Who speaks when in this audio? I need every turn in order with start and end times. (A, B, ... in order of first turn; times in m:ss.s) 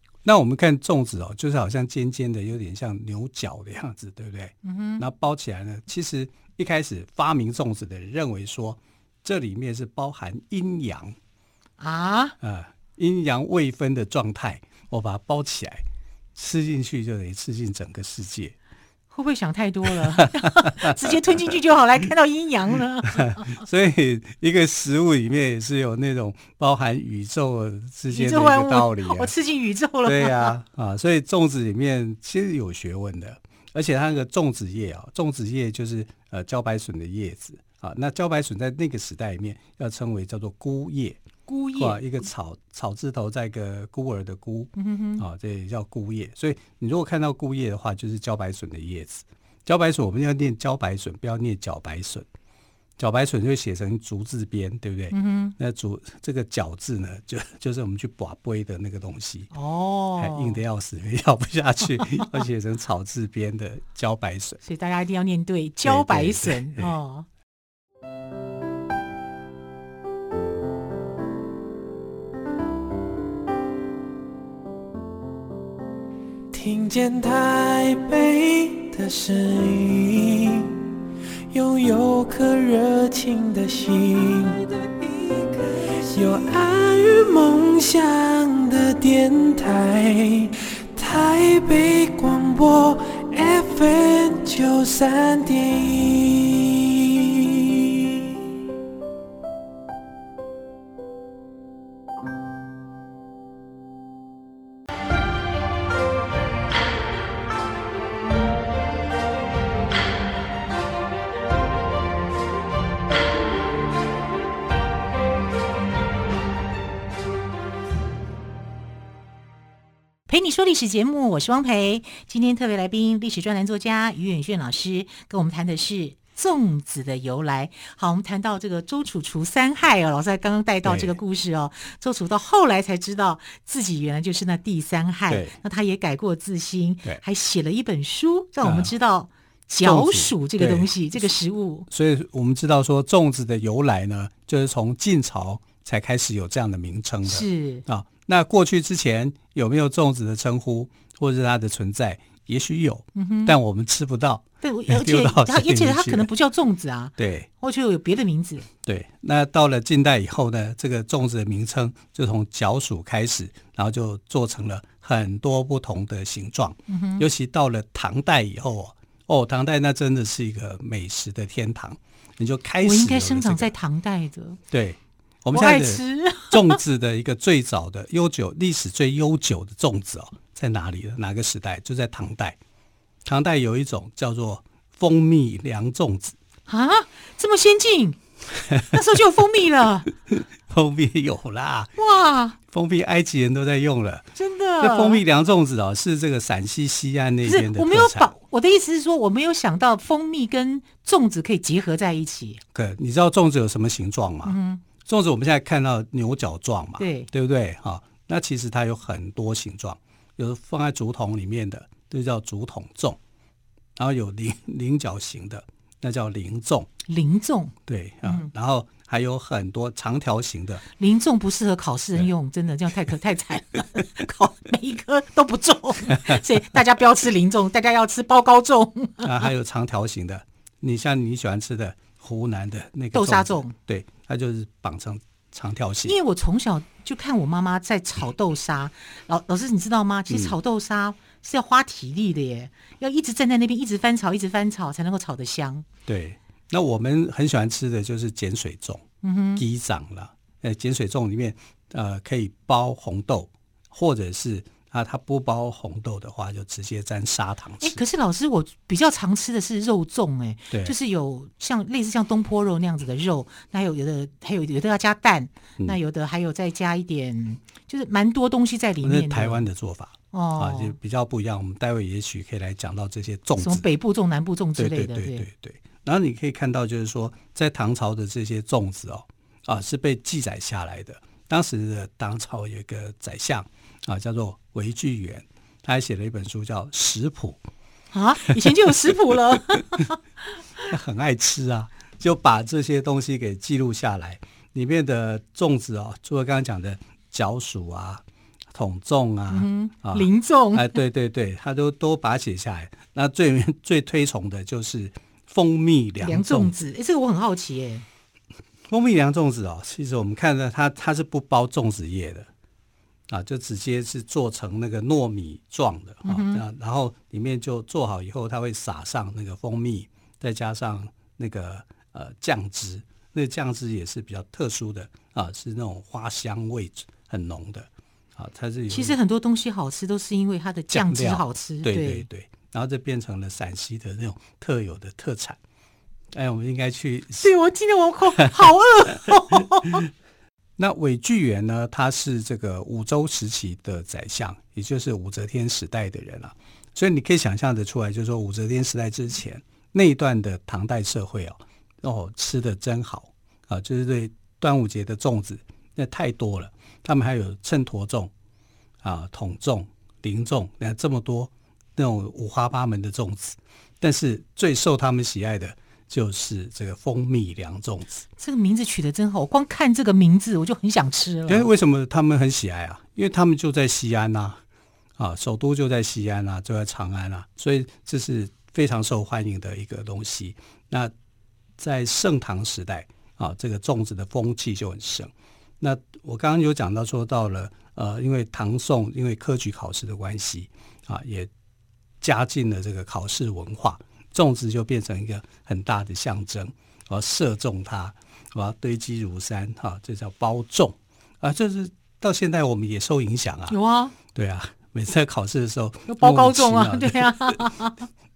0:00.2-0:11.2 A
0:04.6-0:05.0 B
0:11.8-0:12.4 B
0:12.4-0:15.8 A
0:16.4-0:18.6 A
0:19.1-0:23.6 B
0:19.9-0:21.4 A
0:23.2-0:29.3 A
0:28.1-0:30.6 B
0:30.0-0:41.2 A
0:41.5-0:42.0 B
0:41.8-0:52.3 A
0:44.8-0:45.2 B
0:53.0-0:59.5 A
0:55.1-0:55.6 B
0:59.5-1:00.6 B
1:00.2-1:04.6 A
1:02.0-1:02.3 B
1:04.6-1:07.3 B
1:05.8-1:06.9 A
1:16.5-1:20.8 C
1:21.5-1:38.3 C
2:00.3-2:21.9 B
2:10.8-2:11.2 A
2:15.3-2:15.6 A
2:18.6-2:18.9 A
2:19.8-2:20.9 A
2:21.9-2:36.3 A
2:27.3-2:27.8 B
2:33.2-2:33.6 B
2:34.6-2:38.7 B
2:37.2-2:37.5 A
2:38.8-2:53.7 A
2:46.9-2:47.3 B
2:52.8-2:54.6 B
2:54.7-3:02.6 A
2:55.5-2:56.8 B
3:03.2-3:06.4 A
3:06.7-3:08.2 B
3:08.7-3:09.0 A
3:08.8-3:10.1 B
3:10.3-3:11.9 A
3:12.0-3:12.6 B
3:12.7-3:14.3 A
3:14.4-3:15.2 B
3:14.8-3:18.3 A
3:17.4-3:22.6 B
3:22.7-3:33.2 A
3:24.5-3:24.8 B
3:27.0-3:27.3 B
3:34.0-3:36.9 A
3:37.1-3:37.7 B
3:37.9-3:40.8 A
3:38.2-3:38.5 B
3:41.0-3:49.5 B
3:46.2-3:46.4 A
3:49.2-3:56.2 A
3:53.1-3:53.8 B
3:56.1-4:05.8 B
4:00.3-4:00.6 A
4:06.1-4:09.0 A
4:09.2-4:09.6 B
4:09.6-4:18.0 A
4:17.8-4:29.7 B
4:20.7-4:21.0 A
4:29.0-4:33.8 A
4:30.3-4:31.0 B
4:33.6-4:35.5 B
4:34.8-4:47.6 A
4:48.1-4:50.2 B
4:48.6-4:48.9 A
4:49.5-4:50.0 A
4:50.8-5:06.8 A
4:59.5-5:01.0 B
5:06.2-5:08.0 B
5:08.9-5:12.5 A
5:13.3-5:29.2 A
5:16.2-5:16.6 B
5:28.9-5:32.3 B
5:30.9-5:35.6 A
5:36.3-5:37.5 A
5:37.4-5:40.1 B
5:38.4-5:40.0 A
5:40.8-5:58.3 A
5:59.0-6:08.2 A
6:08.4-6:11.7 B
6:11.5-6:14.6 A
6:15.2-6:21.1 A
6:21.8-6:31.5 A
6:32.2-6:43.8 A
6:43.7-6:44.2 B
6:44.3-6:47.6 A
6:46.1-6:48.0 B